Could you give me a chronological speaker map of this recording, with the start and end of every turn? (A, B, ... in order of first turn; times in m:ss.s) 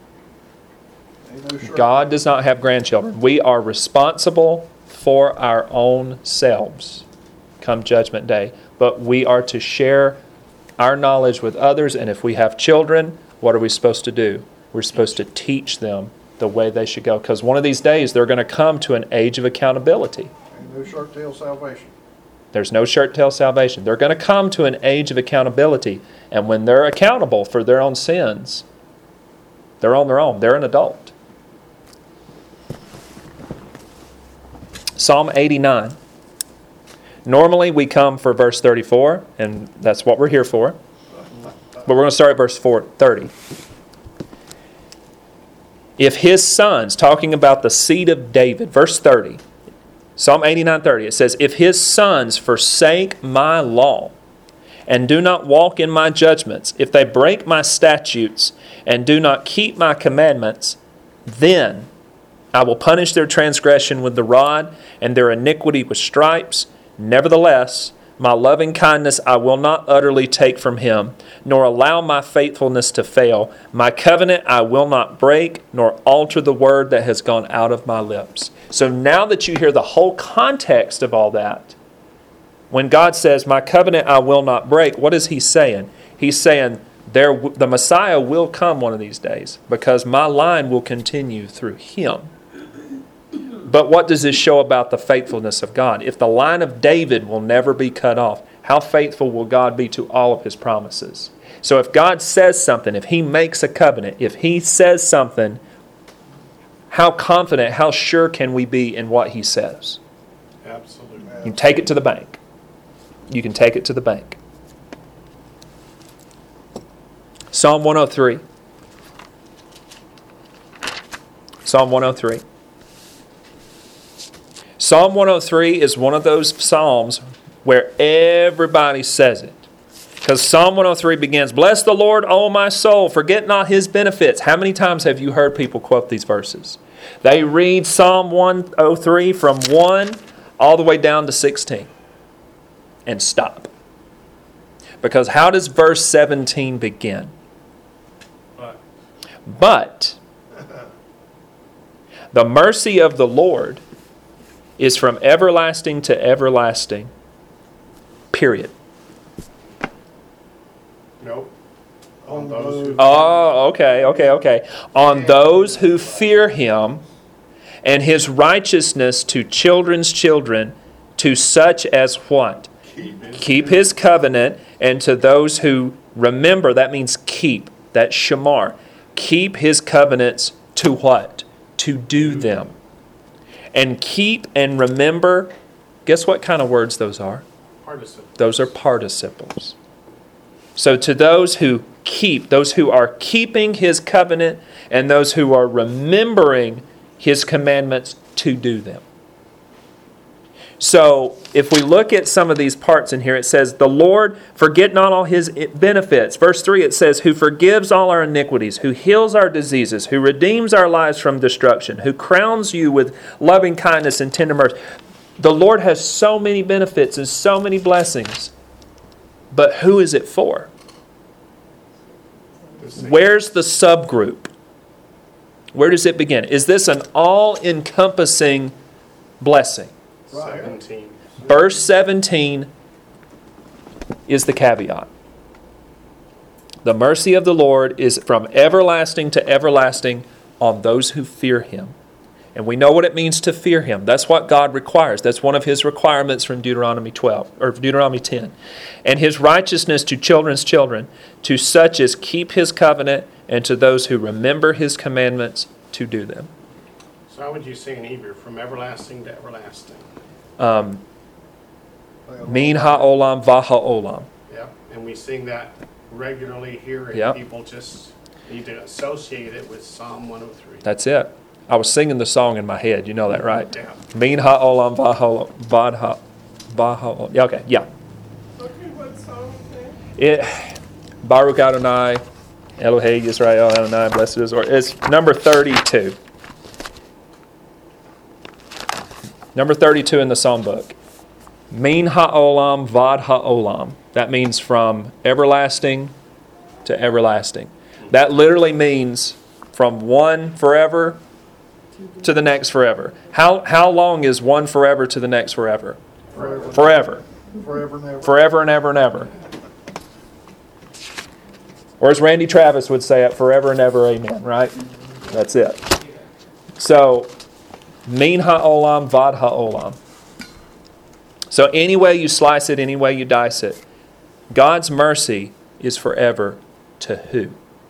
0:01.2-0:02.2 A
0:01.6-0:07.0 B
0:07.6-0:10.2 B
0:10.8-0:20.3 B
0:20.5-0:21.9 A
0:22.5-0:28.6 B
0:29.8-0:31.1 B
0:35.0-0:36.0 B
0:37.2-0:40.8 B
0:41.8-0:43.3 B
0:46.0-0:49.4 B
0:50.2-0:54.1 B
0:54.9-1:01.9 B
1:02.5-1:21.7 B
1:22.7-1:32.3 B
1:33.6-1:45.6 B
1:46.9-1:50.0 B
1:50.6-1:51.4 C
1:51.4-1:52.4 B
1:53.3-1:54.4 B
1:57.5-1:58.4 B
2:01.6-2:02.4 B
2:04.8-2:09.6 B
2:10.2-2:21.9 B
2:23.0-2:23.7 B
2:25.0-2:27.3 B
2:28.6-2:28.8 C
2:29.5-2:30.2 B
2:32.3-2:33.8 B
2:34.8-2:37.1 B
2:38.3-2:38.7 B
2:41.2-2:41.5 C
2:42.2-2:43.2 A
2:42.2-2:43.5 C
2:43.0-2:47.0 B
2:45.0-2:45.9 A
2:47.8-2:52.7 B
2:53.0-2:53.3 A
2:53.0-2:53.9 C
2:53.3-3:02.7 B
3:03.7-3:05.5 B
3:06.0-3:07.4 B
3:07.8-3:08.7 C
3:08.4-3:09.7 B
3:10.8-3:19.0 B
3:20.8-3:34.8 B
3:35.4-3:38.5 B
3:39.5-3:40.7 B
3:42.8-3:43.2 C
3:43.0-3:44.5 B
3:45.7-3:48.7 B
3:49.4-3:49.9 B
3:50.3-3:51.2 C
3:50.3-3:50.7 A
3:51.4-3:51.6 A
3:51.4-3:52.7 B
3:54.3-3:55.1 B
3:56.8-4:01.9 B
4:02.5-4:16.5 B
4:17.3-4:20.1 C
4:20.6-4:21.0 B
4:22.3-4:23.1 A
4:22.4-4:24.3 B
4:24.5-4:30.8 C
4:27.1-4:27.4 B
4:30.8-4:37.9 B
4:38.6-4:39.8 C
4:40.2-4:42.2 B
4:42.8-4:46.2 B
4:49.5-4:50.9 B
4:51.7-4:56.1 B
4:56.8-5:01.2 B
5:02.2-5:06.0 B
5:06.3-5:06.7 C
5:06.3-5:08.4 A
5:06.7-5:07.2 B
5:08.2-5:09.3 B
5:12.0-5:15.9 B
5:16.8-5:17.3 B
5:18.0-5:20.0 B
5:21.5-5:23.8 B
5:24.5-5:27.6 B